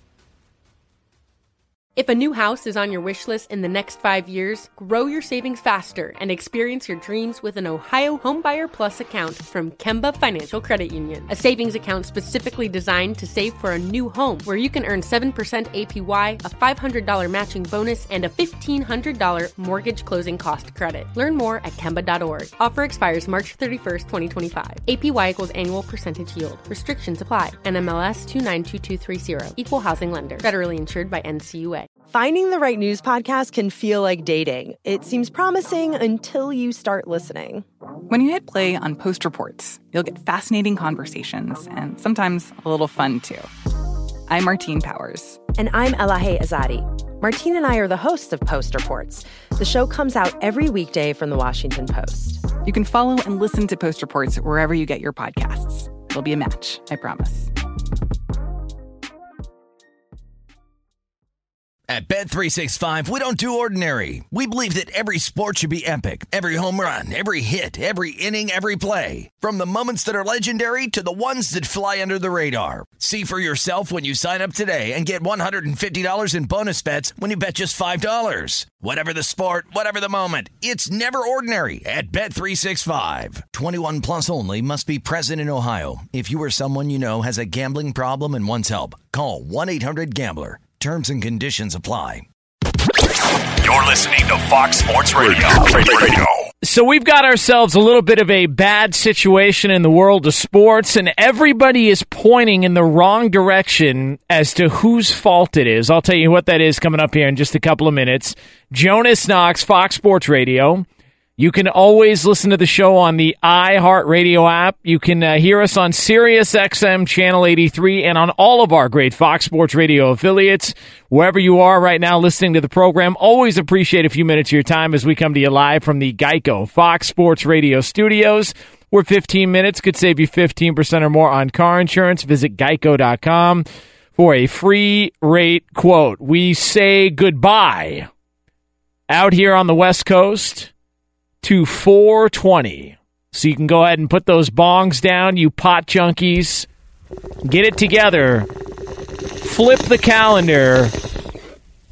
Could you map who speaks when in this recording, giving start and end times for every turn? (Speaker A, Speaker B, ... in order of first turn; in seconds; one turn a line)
Speaker A: 1.9-31.9
Speaker B: 32.0-37.6
Speaker C: 38.1-43.5
Speaker C: 44.3-45.4
Speaker B: 45.5-52.5
Speaker C: 52.6-57.5
Speaker D: 61.9-92.2
Speaker E: 93.6-96.2
Speaker F: 96.6-110.8
Speaker F: 111.4-138.1
Speaker F: 139.1-140.7
Speaker F: 141.4-146.7
Speaker F: 147.4-148.5
Speaker F: 149.4-150.9